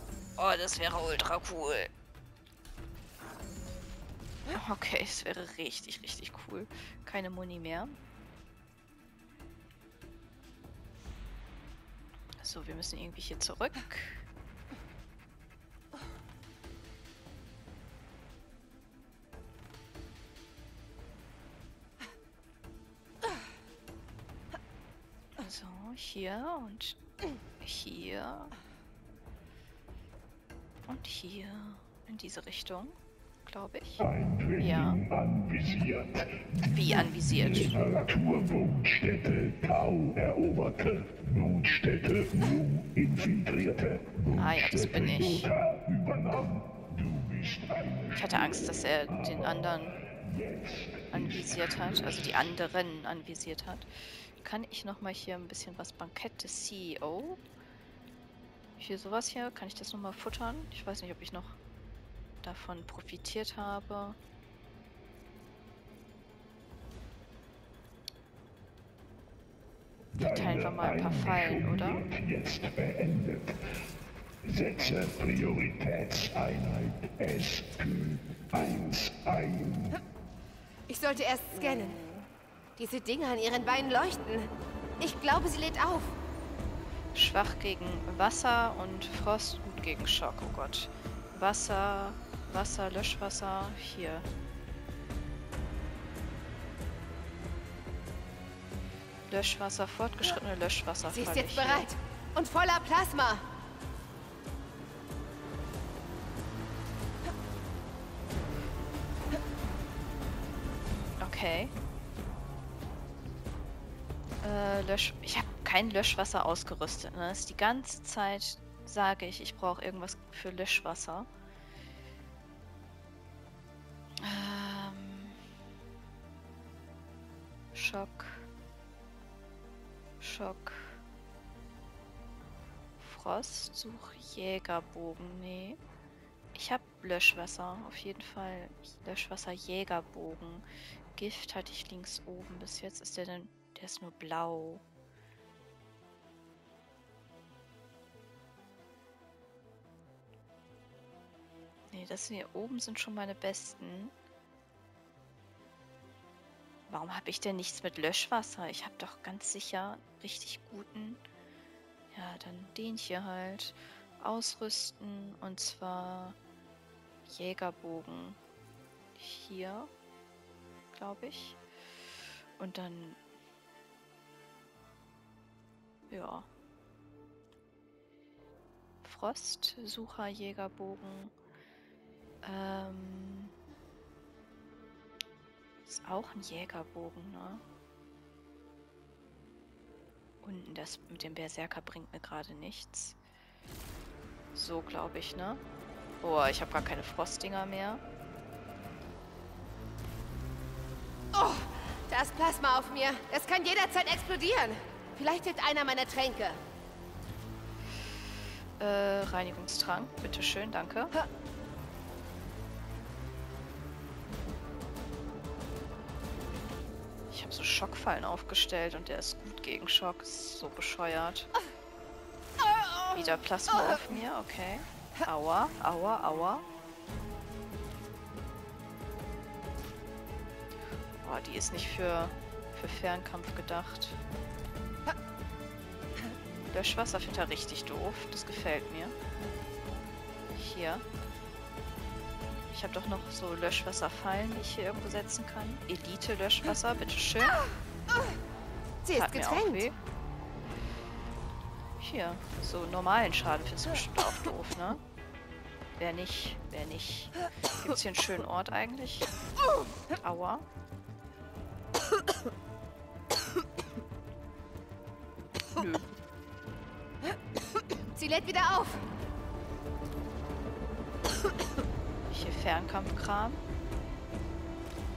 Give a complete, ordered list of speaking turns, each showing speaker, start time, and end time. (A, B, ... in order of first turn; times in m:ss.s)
0:00.4-0:01.9 A
0:04.5-0:07.9 A
0:12.4-0:14.2 A
0:25.4-0:27.0 A
0:27.6-0:28.5 A
0:30.9-0:34.0 A
0:34.0-0:52.5 B
0:34.6-0:35.0 A
0:36.6-0:37.8 A
0:44.3-0:45.5 A
0:48.1-0:50.0 A
0:51.1-0:57.4 A
0:58.8-1:01.6 A
1:02.4-1:04.2 A
1:10.1-1:13.5 B
1:10.2-1:12.0 A
1:14.4-1:20.0 B
1:20.9-1:22.0 C
1:21.5-1:22.3 A
1:22.8-1:26.2 C
1:27.1-1:34.2 A
1:39.3-1:41.9 A
1:41.0-1:43.4 C
1:51.2-1:51.7 A
1:54.4-2:01.3 A
2:04.2-2:05.4 A
2:07.7-2:08.4 A
2:10.2-2:11.0 A
2:13.0-2:15.8 A
2:16.5-2:20.6 A
2:21.2-2:24.8 A
2:31.9-2:34.1 A
2:36.9-2:41.2 A
2:42.1-2:46.4 A
2:47.3-2:48.4 A
2:49.2-2:49.9 A
2:50.9-2:51.6 A
2:52.6-2:53.2 A
2:56.1-2:56.5 A
2:59.0-3:01.3 A
3:02.4-3:03.5 A
3:05.8-3:07.6 A
3:10.4-3:13.2 A
3:14.5-3:15.6 A
3:16.2-3:18.0 A
3:21.3-3:26.6 C
3:28.8-3:31.2 A
3:37.3-3:41.5 A
3:43.1-3:46.6 A
3:51.2-3:54.2 A
3:56.7-3:59.1 A
4:00.5-4:01.0 A
4:02.7-4:07.6 A
4:09.0-4:10.0 C
4:09.1-4:10.0 A
4:12.0-4:15.0 A
4:16.0-4:19.3 A
4:20.2-4:20.6 A
4:25.8-4:26.0 A
4:28.1-4:29.1 C
4:32.3-4:33.6 A